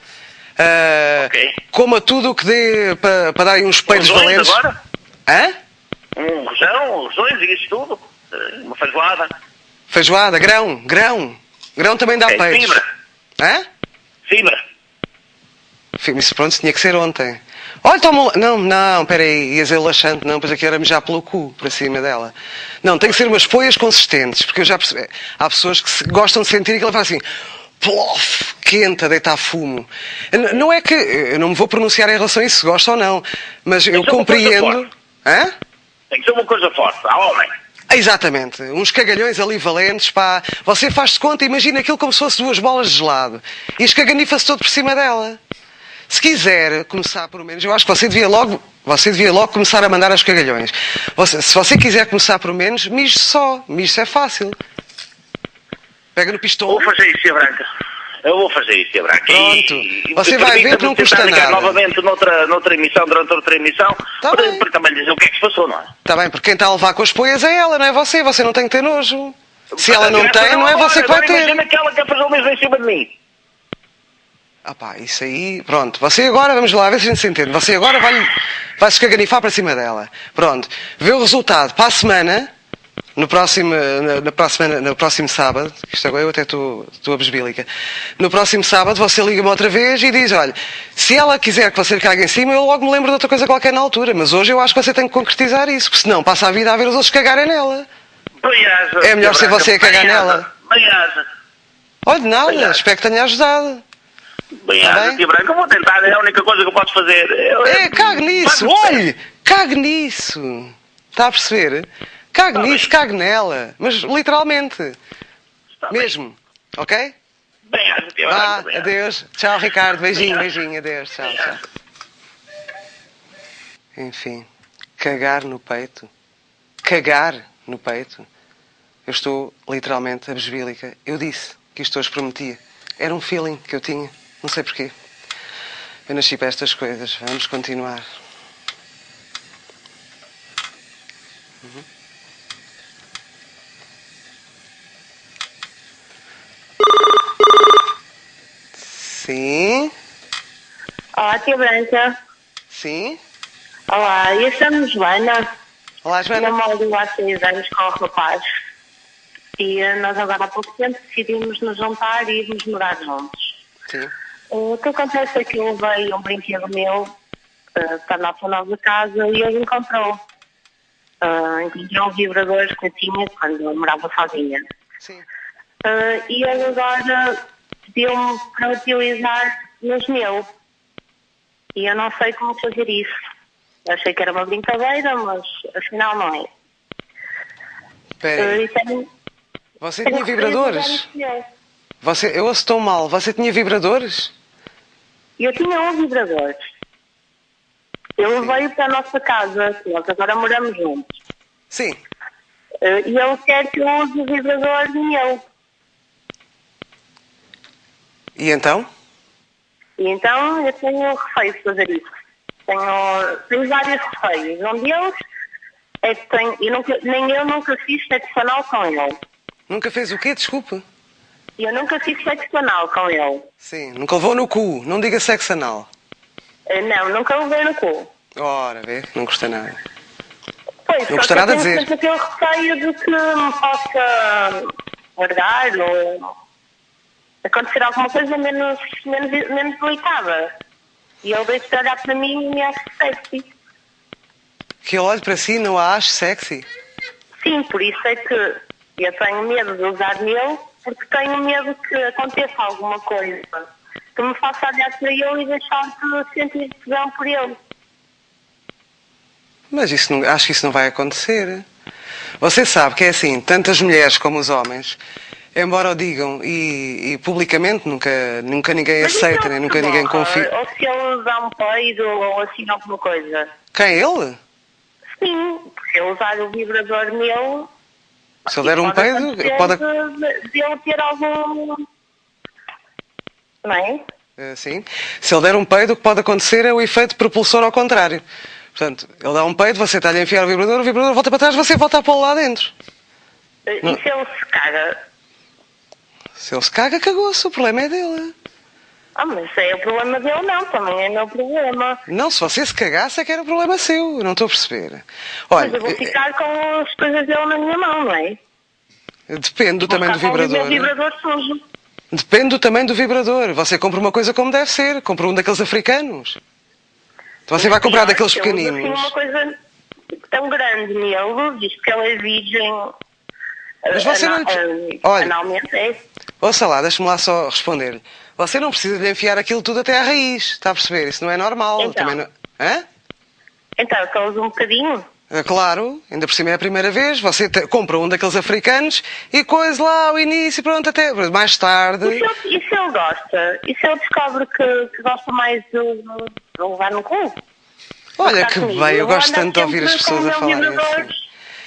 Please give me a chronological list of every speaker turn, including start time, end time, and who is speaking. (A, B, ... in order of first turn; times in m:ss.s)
0:00.6-0:04.6 A
0:01.2-0:01.6 B
0:03.9-0:04.8 B
0:05.3-0:05.5 A
0:06.2-0:09.3 B
0:09.9-0:12.8 A
0:12.3-0:12.8 B
0:13.4-0:13.6 A
0:14.3-0:14.6 B
0:16.0-0:27.2 A
0:27.8-0:35.5 A
0:33.9-0:34.8 B
0:36.1-0:37.5 B
0:37.9-0:45.4 A
0:46.1-0:54.6 A
0:56.1-0:56.9 A
0:56.7-0:57.6 B
0:58.2-1:05.9 B
0:59.3-1:01.8 A
1:04.2-1:04.6 A
1:06.0-1:11.6 A
1:09.7-1:13.1 B
1:14.6-1:22.5 A
1:23.2-1:27.7 A
1:28.2-1:37.9 A
1:38.4-1:41.2 B
1:39.0-1:40.5 A
1:42.0-1:43.8 A
1:42.5-1:42.8 B
1:44.6-1:49.0 B
1:44.8-1:45.2 A
1:47.6-1:55.0 A
1:52.5-1:52.9 B
1:55.8-1:56.1 B
1:55.9-1:57.1 A
1:57.6-1:58.9 B
1:58.2-2:01.6 A
2:00.2-2:00.4 B
2:01.3-2:01.6 B
2:04.0-2:04.5 A
2:05.0-2:06.1 A
2:06.8-2:08.3 A
2:09.0-2:14.9 A
2:16.1-2:18.0 A
2:28.8-2:29.9 A
2:31.1-2:32.2 C
2:32.7-2:33.2 A
2:33.9-2:35.5 C
2:36.0-2:36.6 A
2:36.3-2:38.5 C
2:39.6-2:43.6 C
2:44.5-2:47.1 C
2:47.8-2:50.2 C
2:51.2-2:54.6 C
2:55.8-3:00.4 C
3:01.7-3:03.1 C
3:03.8-3:06.5 C
3:08.2-3:08.6 A
3:08.4-3:09.1 C
3:09.8-3:11.0 A
3:10.0-3:11.4 C
3:12.0-3:14.3 A
3:15.4-3:16.6 C
3:18.2-3:21.1 C
3:21.7-3:22.0 A
3:22.8-3:25.4 C
3:28.4-3:28.9 A
3:30.0-3:32.1 C
3:32.7-3:35.1 C
3:36.0-3:39.2 C
3:39.7-3:40.8 A
3:41.6-3:43.4 C
3:43.6-3:45.9 A
3:46.7-3:48.1 C
3:48.4-3:49.8 A
3:50.8-3:56.3 C
3:51.1-3:51.9 A
3:57.4-4:00.5 C
4:01.2-4:03.5 C
4:04.8-4:06.6 A
4:07.4-4:17.6 C
4:19.7-4:21.6 A
4:22.4-4:25.0 A
4:25.5-4:30.5 A
4:29.0-4:33.5 C
4:33.7-4:34.4 A
4:35.2-4:37.7 C
4:38.5-4:41.8 C
4:38.5-4:39.8 A
4:43.6-4:44.0 C
4:44.4-4:48.2 A
4:48.7-4:52.7 A
4:53.7-4:55.0 C
4:56.4-4:58.3 A
4:59.2-5:02.0 C
5:02.1-5:06.1 A
5:05.5-5:08.4 C
5:09.3-5:10.9 A
5:09.8-5:11.6 C
5:12.1-5:16.4 A
5:17.5-5:19.1 A
5:17.5-5:19.6 C
5:20.3-5:22.9 C
5:23.8-5:26.0 C
5:23.9-5:25.3 A
5:26.4-5:32.8 A
5:31.8-5:32.2 C
5:33.8-5:35.0 C
5:35.3-5:42.3 A
5:42.0-5:47.4 C
5:48.2-5:51.1 A
5:48.2-5:51.2 C